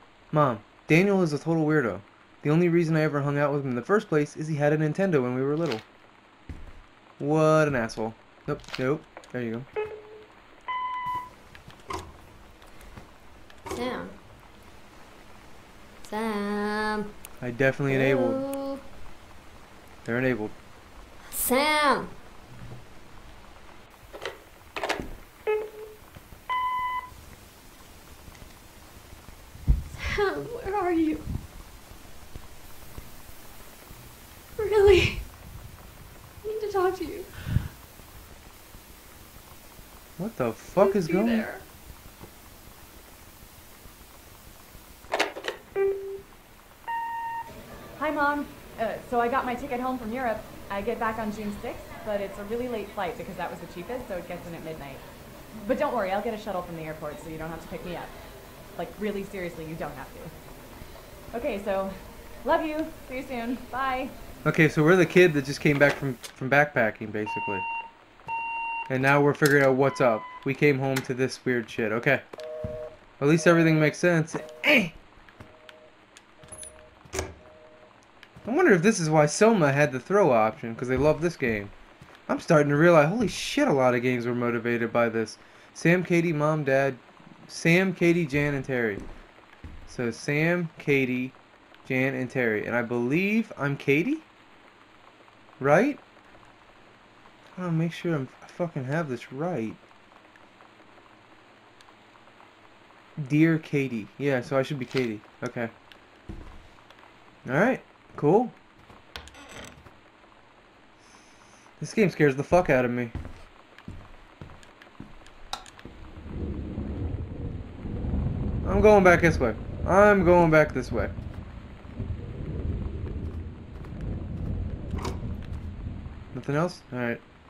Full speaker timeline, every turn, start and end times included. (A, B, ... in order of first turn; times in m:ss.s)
0:00.3-0:05.8 A
0:07.2-0:09.7 A
0:13.7-0:14.2 B
0:16.0-0:17.1 B
0:17.4-0:18.5 A
0:17.9-0:18.8 B
0:20.1-0:20.6 A
0:21.3-0:22.1 B
0:29.9-0:31.3 B
0:34.6-0:35.3 B
0:36.4-0:37.3 B
0:40.2-0:41.5 A
0:40.8-0:41.6 B
0:48.0-0:55.0 C
0:55.6-0:58.2 C
0:58.8-1:00.3 C
1:01.3-1:04.1 C
1:04.4-1:07.7 A
1:08.9-1:12.2 A
1:13.2-1:15.0 A
1:18.4-1:21.7 A
1:22.3-1:29.0 A
1:29.9-1:34.3 A
1:35.6-1:36.0 A
1:37.6-1:39.8 A
1:43.2-1:45.7 A
1:47.4-1:48.6 A
1:51.8-1:53.2 A
1:58.6-2:01.1 A
2:06.3-2:07.2 A